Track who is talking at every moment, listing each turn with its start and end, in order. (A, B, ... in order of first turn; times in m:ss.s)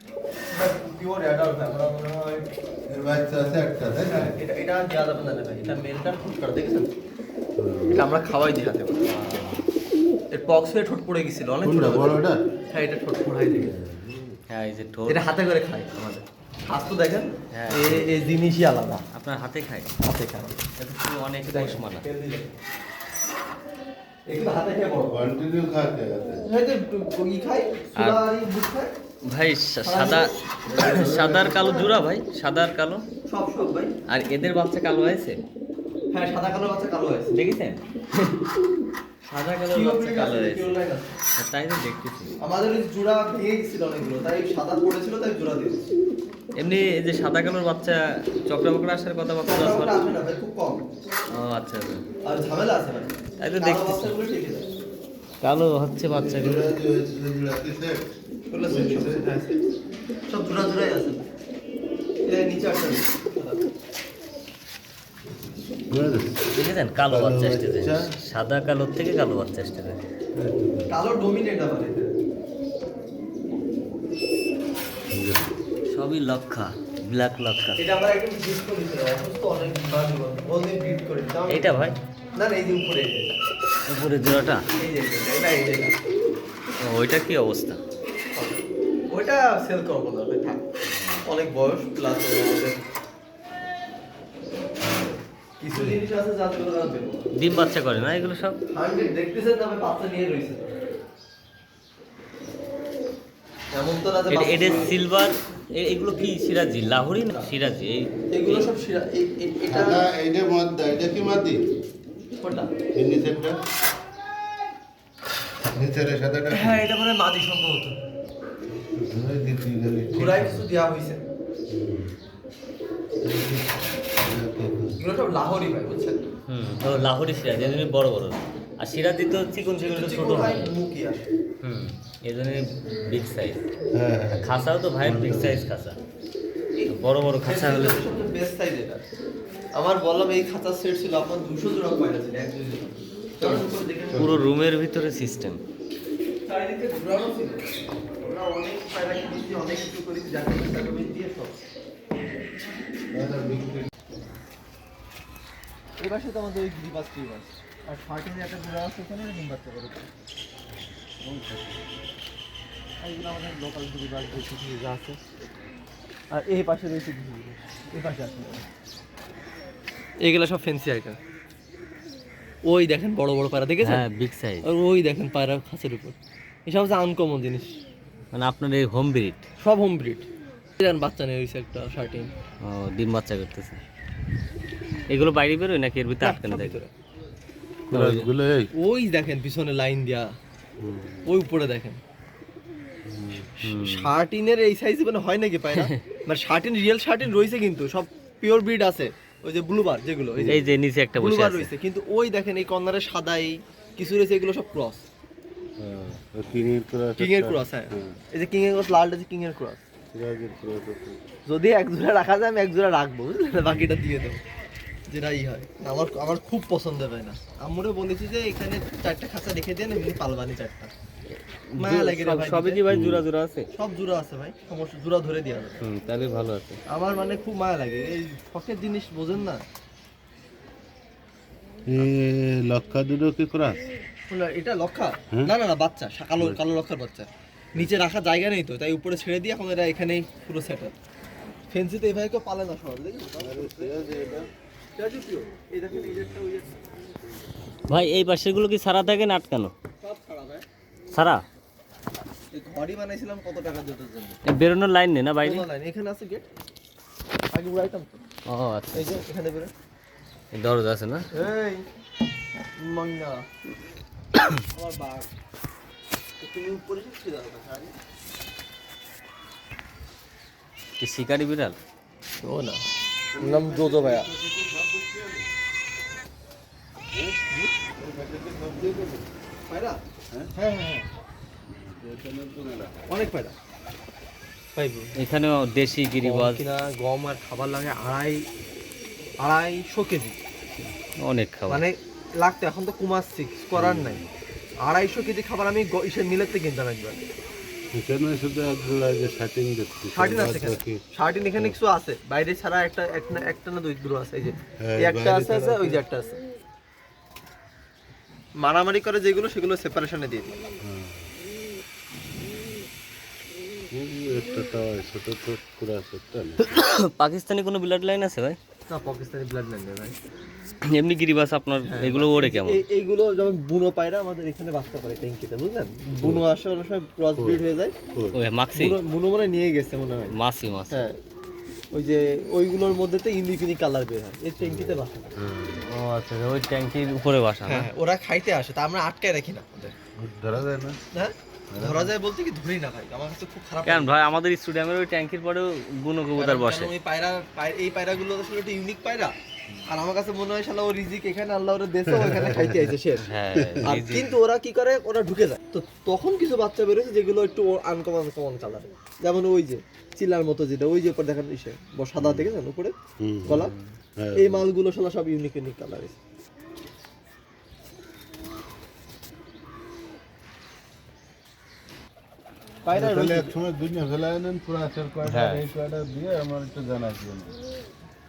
0:00.5-0:02.4 A
0:02.9-0:04.3 B
0:04.0-0:06.9 A
0:07.6-0:08.1 B
0:07.9-0:09.1 A
0:09.0-0:09.6 C
0:10.3-0:12.2 A
0:11.6-0:12.4 B
0:12.7-0:13.7 A
0:13.6-0:14.4 B
0:14.5-0:15.2 C
0:15.1-0:19.0 A
0:17.5-0:18.0 C
0:19.1-0:19.9 C
0:20.0-0:20.6 A
0:20.8-0:22.0 C
0:21.5-0:22.6 A
0:24.3-0:25.2 A
0:25.0-0:26.4 B
0:26.4-0:28.9 A
0:28.0-0:28.2 C
0:29.3-0:33.0 C
0:29.8-0:30.4 A
0:30.7-0:31.9 B
0:31.4-0:31.8 A
0:33.3-0:33.9 A
0:34.1-0:35.4 C
0:36.1-0:37.4 A
0:37.3-0:38.3 C
0:39.3-0:40.8 C
0:39.7-0:41.2 A
0:41.4-0:42.4 C
0:42.4-0:45.8 A
0:46.6-0:50.0 C
0:49.4-0:50.8 A
0:51.3-0:52.0 C
0:52.2-0:54.7 A
0:53.4-0:54.1 C
0:55.4-0:56.8 C
0:56.1-0:58.0 B
0:58.5-0:59.6 A
0:58.7-0:59.2 B
1:00.3-1:01.3 A
1:02.2-1:03.6 A
1:05.9-1:06.4 B
1:06.5-1:10.0 C
1:07.0-1:08.1 B
1:10.3-1:10.9 B
1:10.9-1:12.1 A
1:15.1-1:15.5 B
1:15.9-1:17.8 C
1:17.8-1:23.3 A
1:21.5-1:22.0 C
1:23.9-1:24.6 C
1:24.8-1:25.9 A
1:26.8-1:27.8 C
1:28.3-1:30.6 A
1:30.9-1:31.2 C
1:31.2-1:32.9 A
1:35.6-1:37.3 A
1:35.7-1:36.0 B
1:37.3-1:38.6 C
1:38.7-1:40.8 A
1:43.7-1:44.9 A
1:44.3-1:48.6 C
1:48.3-1:50.0 A
1:49.7-1:51.6 B
1:52.4-1:52.7 A
1:52.9-1:53.6 B
1:55.7-1:56.8 B
1:56.5-1:58.0 A
1:58.7-2:00.6 B
2:00.1-2:01.2 A
2:01.7-2:02.1 B
2:03.2-2:05.0 B
2:05.0-2:06.2 A
2:06.5-2:10.7 C
2:09.8-2:11.3 A
2:11.6-2:13.6 C
2:13.9-2:14.5 B
2:14.4-2:16.0 C
2:15.0-2:15.6 B
2:16.9-2:18.0 C
2:17.4-2:19.0 A
2:19.8-2:24.4 A
2:23.4-2:24.4 B
2:24.1-2:25.6 C
2:26.4-2:31.5 A
2:33.1-2:33.9 B
2:36.0-2:40.1 A
2:41.2-2:41.7 C
2:43.0-2:45.2 A
2:46.3-2:48.6 A
2:50.2-2:51.2 A
2:52.6-2:54.0 A
2:53.8-2:54.7 C
2:54.6-2:57.8 A
2:58.3-2:59.4 C
2:59.6-3:00.3 A
3:00.8-3:02.3 A
3:02.6-3:03.8 C
3:05.1-3:06.8 C
3:06.2-3:06.9 A
3:07.9-3:08.7 B
3:07.9-3:08.3 C
3:08.7-3:10.3 A
3:10.8-3:11.2 B
3:11.2-3:12.0 A
3:13.1-3:13.5 B
3:13.6-3:14.1 C
3:13.6-3:20.6 A
3:15.7-3:16.0 C
3:20.3-3:20.7 B
3:20.5-3:21.7 C
3:21.2-3:25.0 A
3:25.8-3:28.2 B
3:27.2-3:29.8 A
3:30.1-3:31.2 B
3:31.5-3:34.4 A
3:35.1-3:40.9 A
3:41.4-3:43.7 C
3:41.8-3:42.8 A
3:42.9-3:43.2 B
3:43.7-3:45.8 A
3:45.8-3:46.8 C
3:46.9-3:49.6 A
3:51.9-3:53.8 B
3:54.3-4:00.9 A
4:01.7-4:03.9 A
4:03.4-4:04.5 B
4:04.9-4:06.8 A
4:07.9-4:09.7 C
4:10.0-4:10.6 A
4:11.1-4:11.4 C
4:12.5-4:14.4 A
4:14.4-4:15.6 C
4:15.4-4:16.4 A
4:17.5-4:18.2 A
4:18.5-4:19.2 C
4:18.9-4:19.7 A
4:20.5-4:21.3 C
4:21.3-4:21.8 A
4:22.8-4:23.4 A
4:24.7-4:25.3 A
4:26.4-4:27.9 A
4:31.0-4:31.8 C
4:32.4-4:32.8 A
4:33.3-4:35.5 B
4:33.4-4:34.3 A
4:37.1-4:37.4 B
4:38.0-4:39.3 B
4:39.7-4:40.0 A
4:40.5-4:41.0 A
4:41.7-4:43.0 B
4:43.1-4:43.6 A
4:44.7-4:45.1 A
4:45.2-4:46.6 C
4:46.2-4:48.4 A
4:49.4-4:50.4 A
4:51.2-4:51.8 C
4:51.7-4:54.2 A
4:53.8-4:54.2 B
4:54.8-4:57.2 A
4:57.9-5:01.0 B
5:00.1-5:06.4 A
5:04.8-5:06.0 B
5:08.6-5:10.5 A
5:10.8-5:11.3 B
5:13.9-5:16.6 B
5:16.6-5:18.6 C
5:18.9-5:20.2 A
5:20.9-5:22.8 C
5:21.8-5:27.9 A
5:26.2-5:26.4 B
5:27.4-5:28.4 B
5:28.3-5:29.0 C
5:28.7-5:30.3 A
5:30.3-5:31.0 C
5:30.9-5:31.2 A
5:31.9-5:35.3 A
5:34.6-5:35.9 B
5:35.8-5:37.9 C
5:37.6-5:39.9 A
5:40.2-5:41.0 B
5:41.1-5:44.1 A
5:41.7-5:42.1 B
5:43.8-5:46.9 C
5:46.4-5:49.3 A
5:49.9-5:53.3 A
5:52.1-5:52.8 B
5:53.2-5:54.4 C
5:53.5-5:53.8 B
5:53.8-6:02.9 A
6:02.2-6:02.5 B
6:03.2-6:03.6 B
6:03.4-6:03.7 A
6:03.5-6:03.9 C
6:04.2-6:04.6 B
6:04.3-6:06.2 A
6:12.8-6:13.6 A
6:12.9-6:17.6 B
6:15.2-6:15.7 C